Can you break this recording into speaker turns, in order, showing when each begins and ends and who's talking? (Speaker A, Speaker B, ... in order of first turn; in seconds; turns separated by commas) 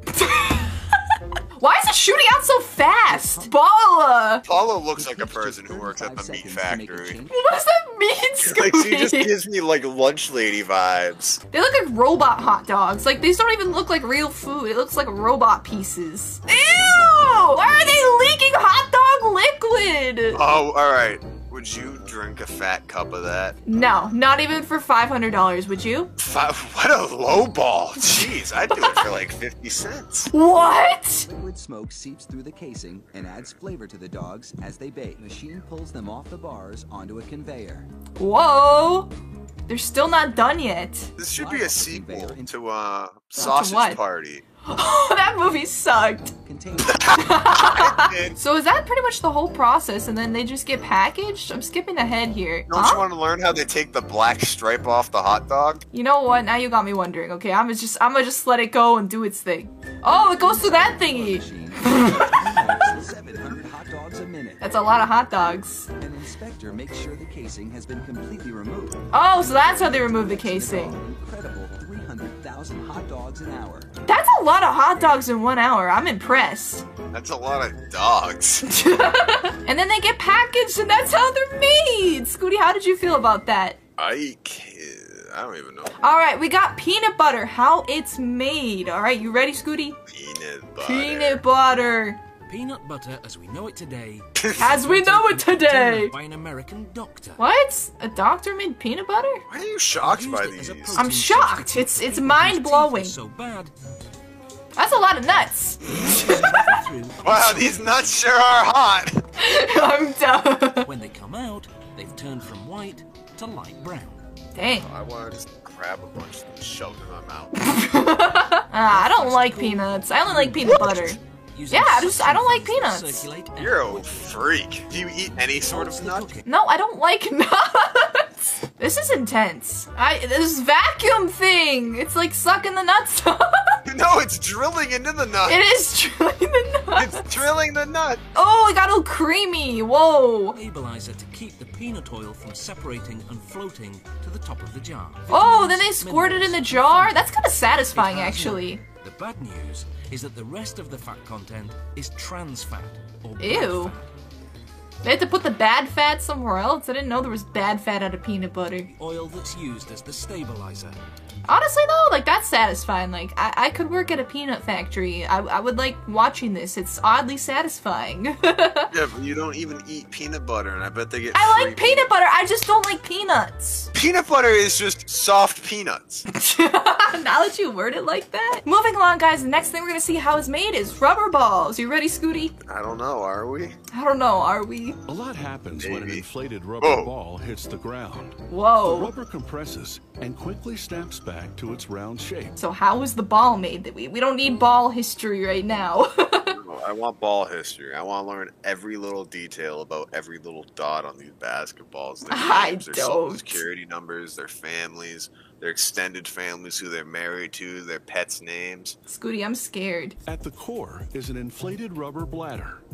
Speaker A: 0.1-0.8, Speaker A: 1.6-4.5, Speaker B: 3.1-3.5, Speaker C: 4.5-7.2, Speaker B: 4.9-7.4, Speaker A: 7.3-9.3, Speaker C: 8.4-11.4, Speaker A: 11.5-20.4, Speaker B: 16.5-18.1, Speaker C: 20.3-23.6, Speaker A: 23.7-26.1, Speaker C: 26.2-30.3, Speaker A: 28.8-29.1, Speaker A: 30.3-31.3, Speaker B: 31.2-37.9, Speaker A: 38.2-39.1, Speaker A: 39.7-41.1, Speaker C: 41.2-44.4, Speaker B: 41.3-42.5, Speaker A: 43.4-44.0, Speaker A: 44.6-46.3, Speaker B: 46.4-47.2, Speaker C: 46.9-48.4, Speaker A: 47.1-53.1, Speaker C: 52.7-55.8, Speaker A: 55.9-62.4, Speaker B: 60.1-64.8, Speaker A: 64.6-65.9, Speaker B: 66.0-73.9, Speaker A: 69.1-71.0, Speaker A: 74.0-76.8, Speaker C: 77.1-78.7, Speaker A: 78.7-83.8, Speaker C: 84.0-85.9, Speaker A: 86.0-90.0, Speaker C: 90.1-91.4, Speaker A: 90.8-92.2, Speaker D: 92.5-97.4, Speaker C: 94.4-94.8, Speaker A: 94.6-96.1, Speaker A: 97.4-99.4, Speaker C: 99.5-101.1, Speaker D: 100.0-103.8, Speaker A: 101.0-103.2, Speaker A: 104.8-106.7, Speaker D: 105.9-108.1, Speaker C: 107.2-109.1, Speaker A: 109.4-110.9, Speaker D: 110.8-114.2, Speaker A: 114.5-114.9, Speaker C: 114.8-117.5, Speaker A: 117.6-121.2, Speaker D: 118.8-124.5, Speaker A: 121.7-123.3, Speaker C: 123.6-126.3, Speaker D: 125.7-126.5, Speaker A: 126.5-133.8, Speaker C: 133.8-135.6, Speaker A: 135.5-137.5, Speaker C: 136.9-138.2, Speaker A: 138.3-140.6, Speaker D: 140.5-154.0, Speaker A: 145.3-148.8, Speaker A: 153.4-153.9, Speaker A: 155.0-158.9, Speaker D: 158.9-161.0, Speaker A: 161.5-168.9, Speaker C: 168.9-172.1, Speaker A: 171.3-173.9, Speaker C: 173.9-176.3, Speaker A: 176.3-182.5, Speaker C: 182.7-183.8, Speaker A: 183.9-185.0, Speaker E: 185.1-192.6, Speaker C: 185.8-186.2, Speaker C: 186.8-187.1, Speaker A: 188.5-189.1, Speaker A: 192.6-196.6, Speaker C: 196.5-209.0, Speaker A: 202.3-203.6, Speaker A: 209.1-210.2, Speaker E: 210.2-212.8